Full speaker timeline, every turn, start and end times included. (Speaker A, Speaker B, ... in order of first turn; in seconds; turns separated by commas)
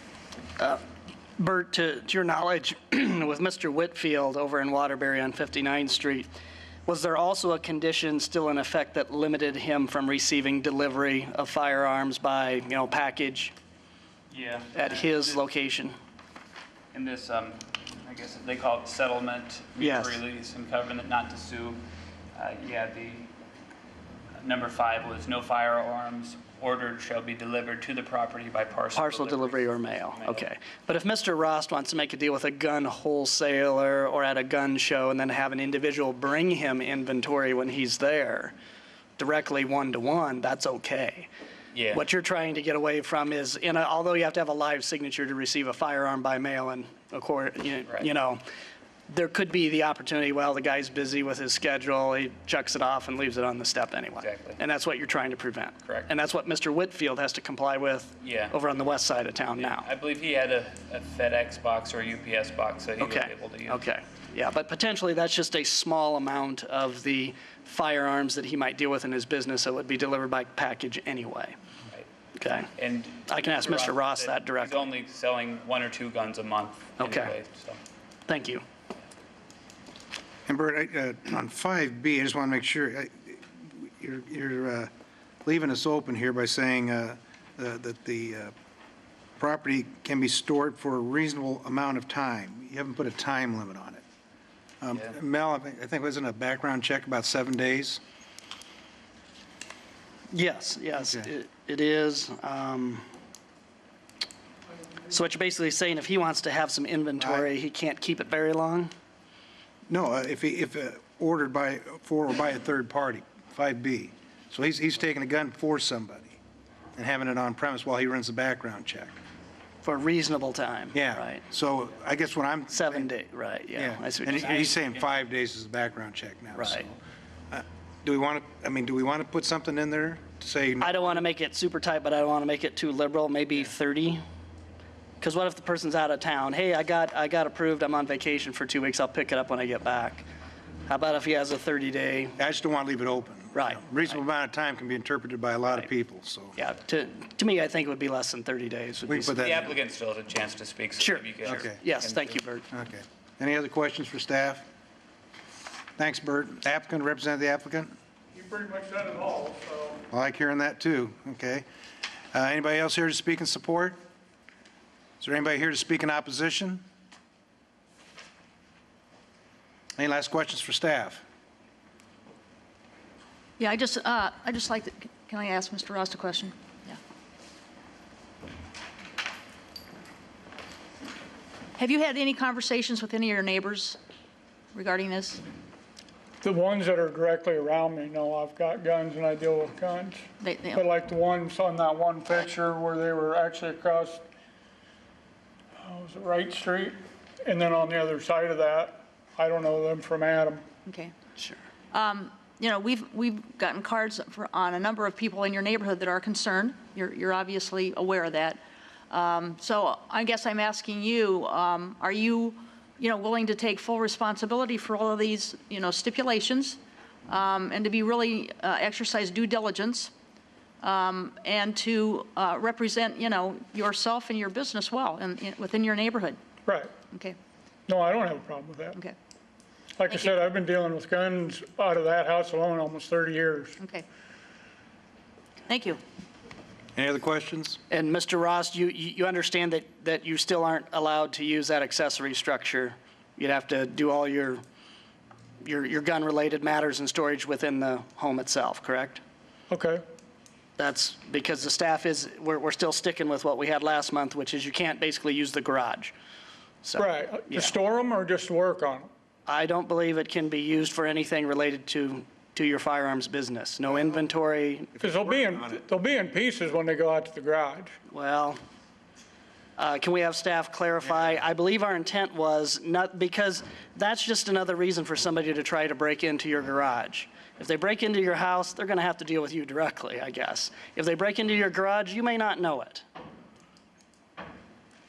Speaker A: 1.4-6.3, Speaker A: 6.9-13.5, Speaker B: 14.3-15.5, Speaker A: 14.7-15.9, Speaker B: 16.9-21.8, Speaker A: 19.8-20.2, Speaker B: 22.3-23.3, Speaker B: 24.4-30.4, Speaker A: 28.9-38.5, Speaker A: 39.2-41.3, Speaker B: 41.7-42.0, Speaker A: 41.9-48.4, Speaker B: 47.9-48.1, Speaker A: 49.1-59.9, Speaker B: 54.2-54.6, Speaker B: 55.8-56.1, Speaker B: 58.2-58.5, Speaker B: 59.5-63.9, Speaker A: 63.0-71.5, Speaker A: 72.4-72.7, Speaker B: 72.7-77.8, Speaker A: 73.3-74.9, Speaker A: 77.0-77.3, Speaker A: 78.3-78.6, Speaker C: 80.5-84.9, Speaker C: 85.4-88.5, Speaker C: 89.4-94.0, Speaker C: 94.8-98.0, Speaker A: 100.3-103.0, Speaker A: 105.1-108.9, Speaker C: 107.2-107.5, Speaker C: 109.9-116.4, Speaker C: 117.0-119.2, Speaker A: 119.8-121.4, Speaker C: 120.9-123.1, Speaker A: 122.7-124.8, Speaker C: 123.7-127.0, Speaker A: 126.5-126.8, Speaker C: 127.5-131.0, Speaker A: 130.8-134.2, Speaker A: 135.2-140.2, Speaker A: 140.9-142.4, Speaker C: 142.4-146.6, Speaker A: 143.5-144.2, Speaker A: 146.6-149.6, Speaker C: 149.1-149.7, Speaker B: 149.3-152.4, Speaker A: 151.0-152.7, Speaker C: 151.4-151.8, Speaker C: 152.7-154.7, Speaker C: 156.0-157.9, Speaker D: 158.3-160.0, Speaker C: 160.1-161.6, Speaker C: 162.3-164.0, Speaker C: 165.2-166.8, Speaker C: 170.0-171.2, Speaker E: 173.6-177.0, Speaker E: 181.8-184.0, Speaker E: 184.7-185.4, Speaker D: 186.4-194.2, Speaker E: 190.4-190.8, Speaker D: 195.8-200.6, Speaker E: 200.8-201.1, Speaker E: 201.9-208.6, Speaker E: 209.1-220.1, Speaker E: 220.8-226.4, Speaker D: 226.7-226.9, Speaker E: 227.1-227.3, Speaker D: 227.9-229.0, Speaker D: 229.9-233.8, Speaker E: 230.1-230.4, Speaker E: 233.8-234.0, Speaker E: 235.7-236.0, Speaker C: 236.9-237.8, Speaker A: 237.9-244.6, Speaker A: 245.6-249.2, Speaker D: 249.7-250.0, Speaker A: 250.8-256.1, Speaker A: 256.8-257.7, Speaker D: 256.9-259.1, Speaker A: 259.5-264.9, Speaker D: 264.9-267.9, Speaker C: 265.2-265.6, Speaker A: 268.1-268.6, Speaker A: 269.8-283.0